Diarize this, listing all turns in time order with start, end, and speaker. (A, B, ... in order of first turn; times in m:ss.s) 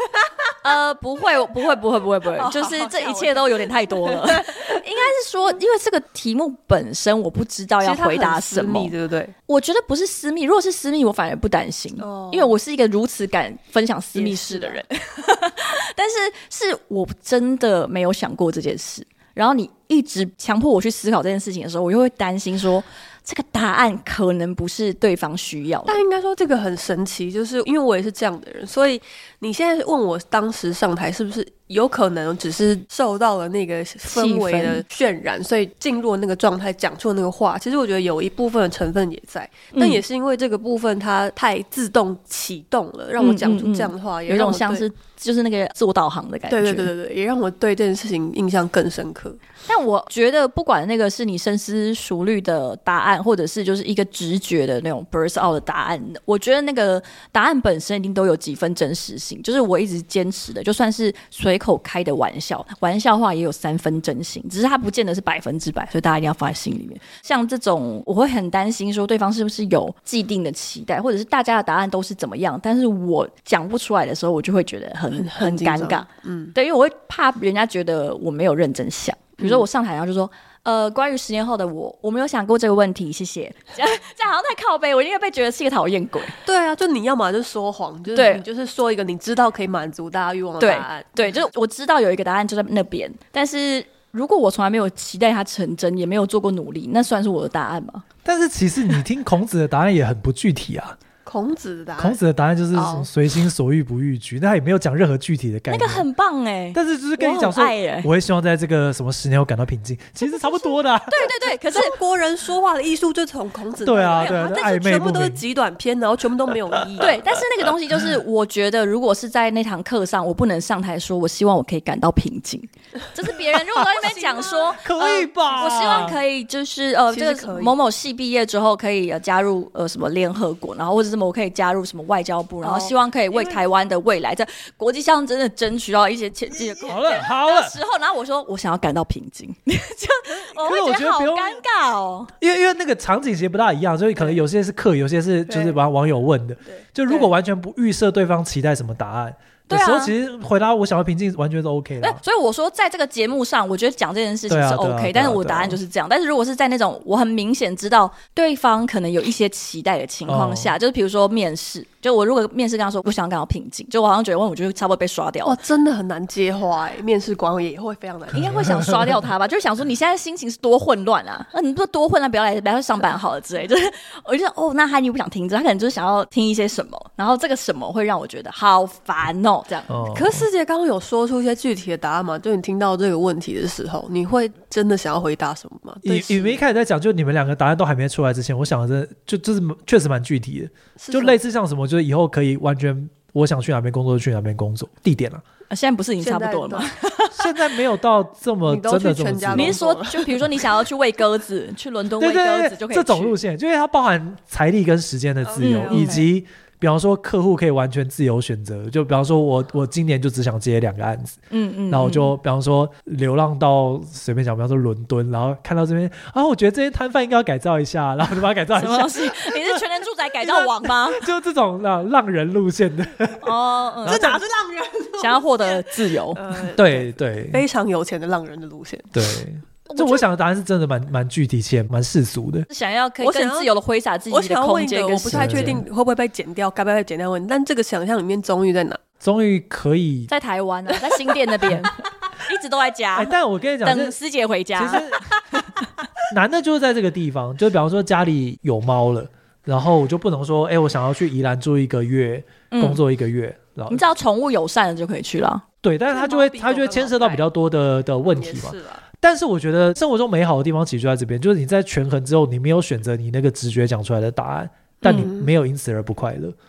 0:00.6-0:08.9 A
0:02.4-0:04.8 B
0:07.8-0:09.3 B
0:09.5-0:26.0 A
0:12.0-0:12.6 B
0:14.1-0:14.8 B
0:25.8-0:44.9 B
0:34.1-0:34.8 A
0:39.7-0:40.0 A
0:43.2-0:46.9 A
0:46.5-0:49.4 B
0:49.6-1:26.4 A
1:15.2-1:16.5 B
1:19.4-1:19.6 B
1:26.4-1:31.1 B
1:28.1-1:28.4 A
1:30.6-1:38.0 A
1:38.2-1:41.0 C
1:41.2-1:42.2 B
1:42.0-1:46.0 C
1:42.7-1:43.1 B
1:45.7-1:48.1 A
1:46.7-1:51.3 C
1:51.1-1:51.9 A
1:51.5-1:57.2 B
1:53.8-1:55.4 C
1:57.0-2:22.3 A
2:03.9-2:04.8 B
2:04.8-2:06.2 C
2:07.1-2:07.8 B
2:12.6-2:13.6 B
2:16.8-2:17.8 C
2:20.6-2:21.6 C
2:22.4-2:32.2 C
2:25.5-2:25.8 B
2:29.7-2:30.1 A
2:32.0-2:45.6 A
2:34.5-2:35.8 C
2:40.2-2:40.7 C
2:45.4-2:48.8 B
2:48.3-3:00.0 A
2:48.6-2:49.0 C
2:59.9-3:00.4 C
3:00.1-3:06.6 B
3:06.0-3:15.4 C
3:11.0-3:11.4 B
3:15.7-3:17.6 A
3:16.2-3:16.9 B
3:17.3-3:19.8 C
3:18.6-3:20.6 B
3:19.5-3:23.4 A
3:22.2-3:31.4 C
3:25.4-3:26.3 B
3:25.6-3:26.2 A
3:31.5-3:32.4 A
3:31.9-3:39.8 C
3:38.7-3:41.3 A
3:40.4-3:43.5 C
3:43.4-3:44.4 A
3:44.0-3:44.4 C
3:44.0-3:49.2 B
3:45.2-3:46.4 A
3:46.8-3:47.6 C
3:49.1-3:52.7 C
3:49.9-3:50.2 A
3:52.7-3:55.8 A
3:53.2-3:53.7 B
3:54.3-3:59.0 B
3:55.3-3:55.8 C
3:59.2-4:00.3 C
4:00.3-4:05.9 A
4:03.1-4:04.2 C
4:04.8-4:05.2 C
4:06.3-4:14.0 C
4:12.7-4:13.0 A
4:13.9-4:15.6 A
4:15.8-4:26.5 C
4:16.1-4:17.4 B
4:18.3-4:19.0 B
4:25.0-4:25.3 A
4:25.1-4:25.5 B